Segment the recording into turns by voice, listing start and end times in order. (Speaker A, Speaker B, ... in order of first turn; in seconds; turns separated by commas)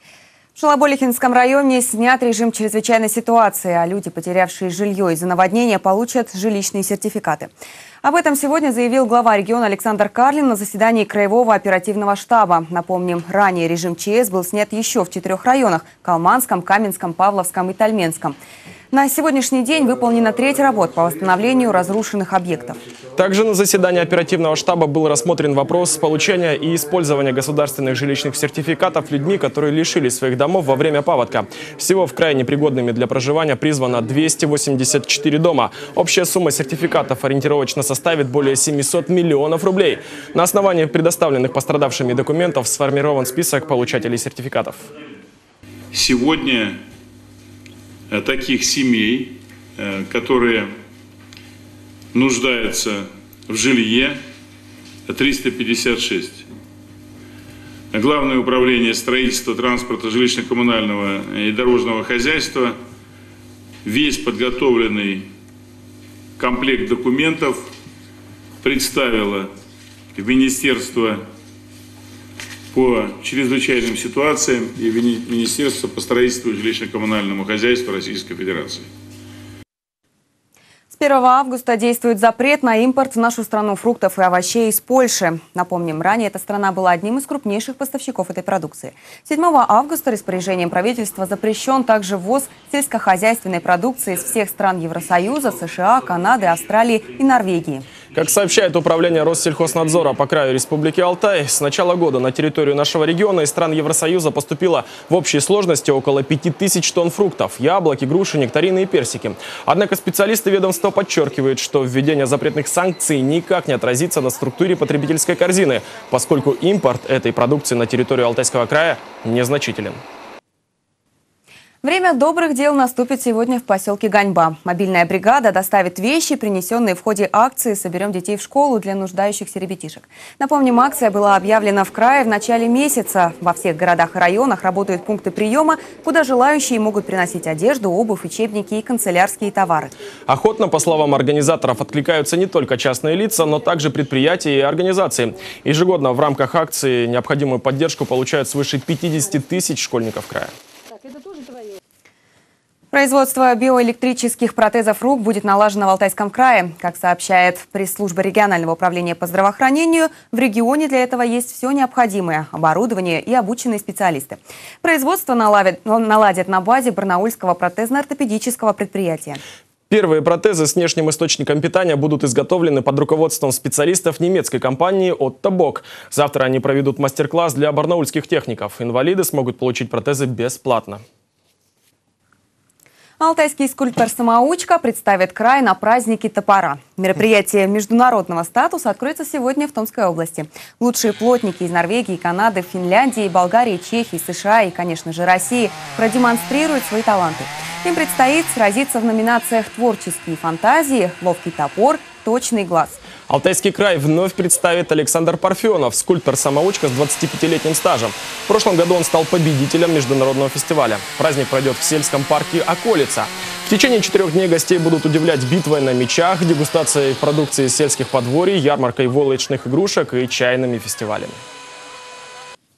Speaker A: 0.5-7.5, Speaker A: 8.0-18.4, Speaker A: 18.9-22.8, Speaker B: 23.1-44.8, Speaker C: 45.9-46.8, Speaker C: 48.1-50.7, Speaker C: 52.1-54.2, Speaker C: 55.1-56.4, Speaker C: 57.9-62.8, Speaker C: 63.8-65.3, Speaker C: 66.4-67.7, Speaker C: 68.6-69.5, Speaker C: 70.1-71.2, Speaker C: 72.7-78.9, Speaker A: 80.9-97.9, Speaker B: 98.1-120.0, Speaker A: 121.8-139.9, Speaker B: 140.3-150.5, Speaker A: 152.9-169.4, Speaker B: 169.9-181.0, Speaker A: 183.2-203.0, Speaker B: 203.3-221.4